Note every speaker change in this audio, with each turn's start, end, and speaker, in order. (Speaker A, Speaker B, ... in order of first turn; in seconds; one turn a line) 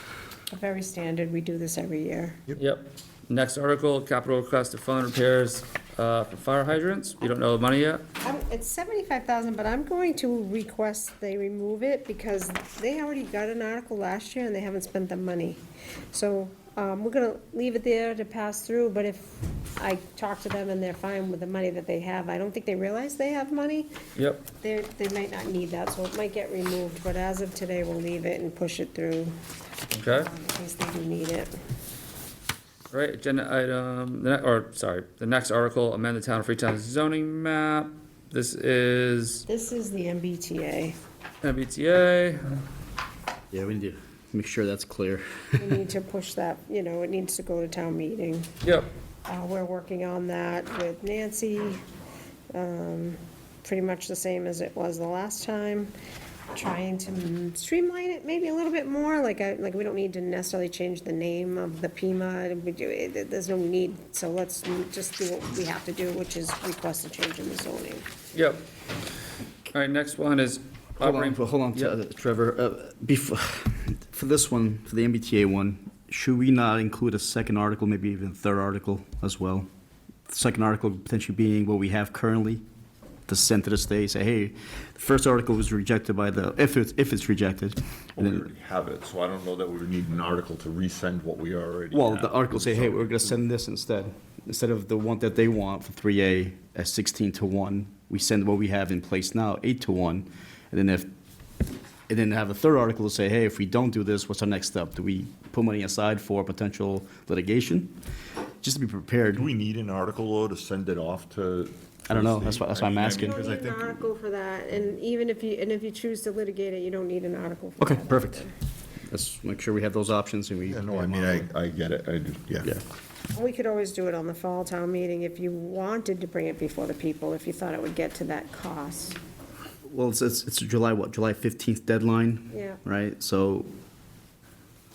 Speaker A: 0.5-2.4
Speaker B: 2.5-8.0
Speaker A: 8.2-15.6
Speaker A: 16.1-23.9
Speaker B: 24.1-24.4
Speaker A: 24.6-29.3
Speaker B: 29.9-30.3
Speaker A: 30.1-31.5
Speaker B: 32.9-39.4
Speaker A: 39.5-41.0
Speaker B: 41.4-42.6
Speaker C: 43.5-45.8
Speaker A: 45.6-48.5
Speaker B: 48.6-48.9
Speaker A: 49.2-51.8
Speaker A: 52.5-55.9
Speaker A: 56.5-68.0
Speaker B: 68.3-68.6
Speaker B: 69.7-71.9
Speaker C: 71.0-79.7
Speaker C: 80.3-82.6
Speaker C: 83.3-88.5
Speaker D: 88.2-93.3
Speaker C: 91.9-101.1
Speaker C: 102.1-108.0
Speaker C: 108.6-109.5
Speaker D: 109.3-114.0
Speaker C: 112.1-113.4
Speaker A: 113.2-118.5
Speaker C: 117.8-118.5
Speaker C: 119.1-121.5
Speaker D: 120.7-122.7
Speaker A: 123.3-129.2
Speaker C: 129.8-133.7
Speaker A: 132.5-132.8